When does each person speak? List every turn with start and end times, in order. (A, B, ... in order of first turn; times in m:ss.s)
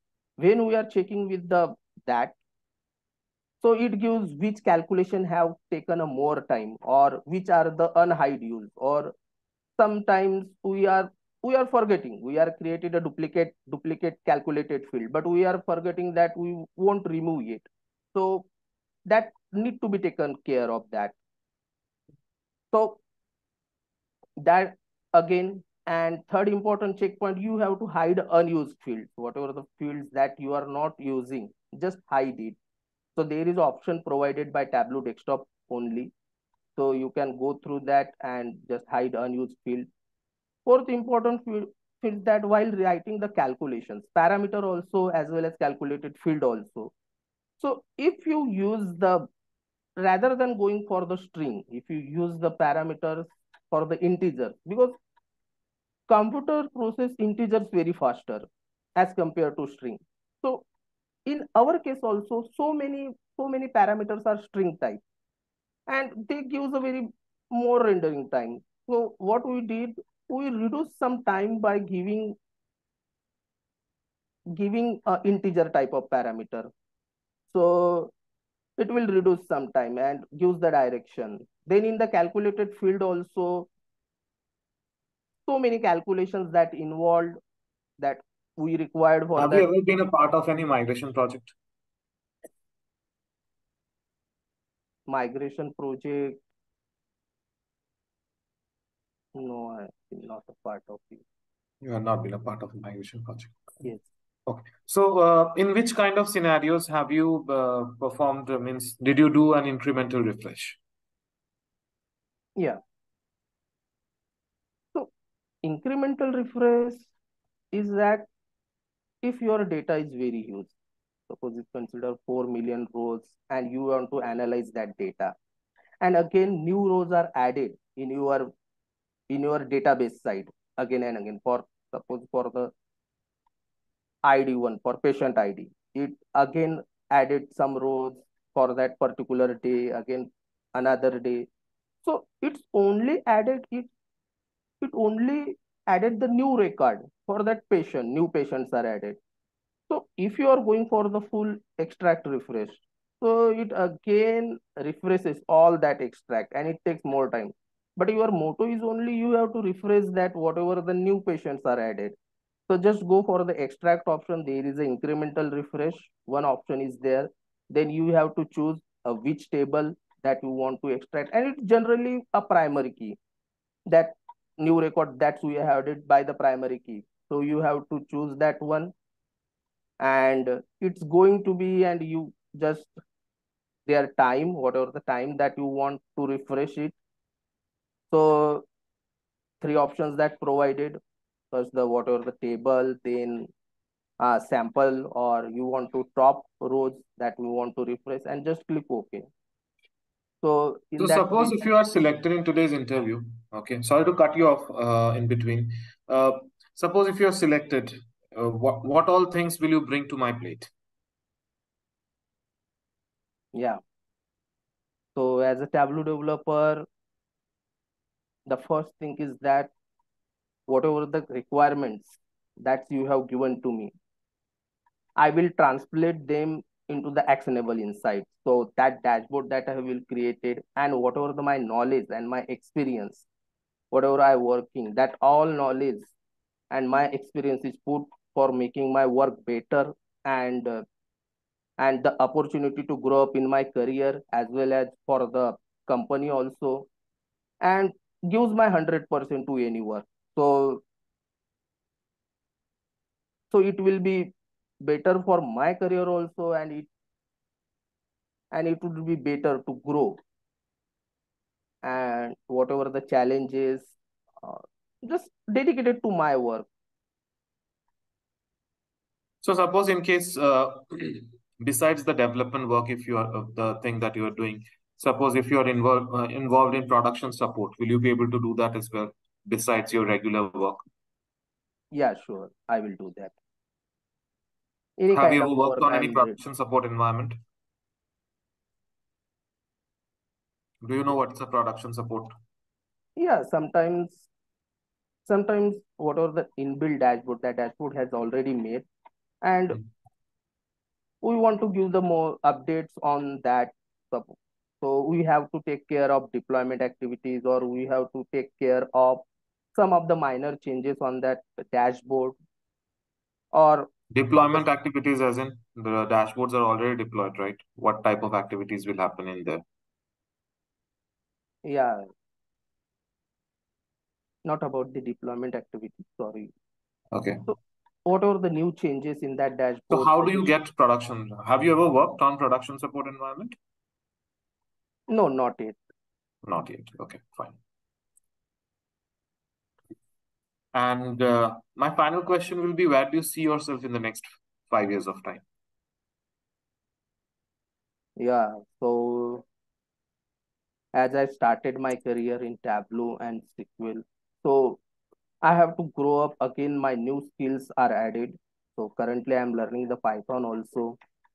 0:00.4-0:02.4 A
0:03.6-0:09.1 A
0:09.8-0:18.5 A
0:19.1-0:21.2 A
0:22.7-0:23.0 A
0:24.4-0:32.6 A
0:33.2-0:36.1 A
0:36.8-0:39.9 A
0:40.7-0:46.9 A
0:47.6-0:49.3 A
0:50.0-0:55.0 A
0:56.1-1:00.6 A
1:01.3-1:05.0 A
1:05.9-1:12.4 A
1:14.6-1:16.7 A
1:17.5-1:18.1 A
1:18.8-1:23.7 A
1:25.5-1:27.4 A
1:28.0-1:29.7 A
1:29.4-1:31.5 B
1:35.1-1:36.4 A
1:39.4-1:41.2 A
1:41.8-1:43.5 B
1:44.5-1:50.8 B
1:55.6-1:57.1 A
1:57.7-1:58.3 A
1:59.2-2:00.7 A
2:01.3-2:05.4 A
2:06.0-2:08.5 A
2:09.3-2:12.7 A
2:14.2-2:21.5 A
2:22.0-2:23.9 A
2:24.8-2:29.2 A
2:29.9-2:42.2 A
2:42.7-2:53.2 A
2:53.9-2:58.9 A
3:00.0-3:03.0 A
3:03.9-3:07.0 A
3:08.1-3:08.7 A
3:09.6-3:11.0 A
3:11.5-3:13.5 A
3:14.2-3:19.3 A
3:20.4-3:21.7 A
3:21.0-3:30.7 B
3:33.5-3:33.8 A
3:35.2-3:36.9 A
3:38.5-3:39.7 A
3:40.7-3:43.9 A
3:45.2-3:53.3 A
3:53.9-3:56.1 A
3:56.7-4:00.8 A
4:01.8-4:06.9 A
4:07.6-4:10.8 A
4:13.5-4:16.9 A
4:18.5-4:20.2 A
4:21.8-4:26.7 A
4:29.4-4:40.8 B
4:41.9-4:43.4 A
4:45.0-4:46.4 A
4:45.1-4:47.4 B
4:50.8-4:52.3 B
4:53.2-4:54.3 A
4:55.3-4:58.9 A
4:59.4-4:59.8 A
5:01.2-5:12.4 A
5:13.5-5:14.6 A
5:14.1-5:19.6 B
5:21.6-5:22.1 A
5:24.4-5:26.5 A
5:27.1-5:27.4 B
5:27.5-5:30.6 A
5:29.9-5:33.6 B
5:35.1-5:35.8 A
5:36.4-5:37.6 B
5:40.8-5:45.4 B
5:48.2-5:49.4 A
5:50.9-5:54.8 A
5:55.4-6:01.0 A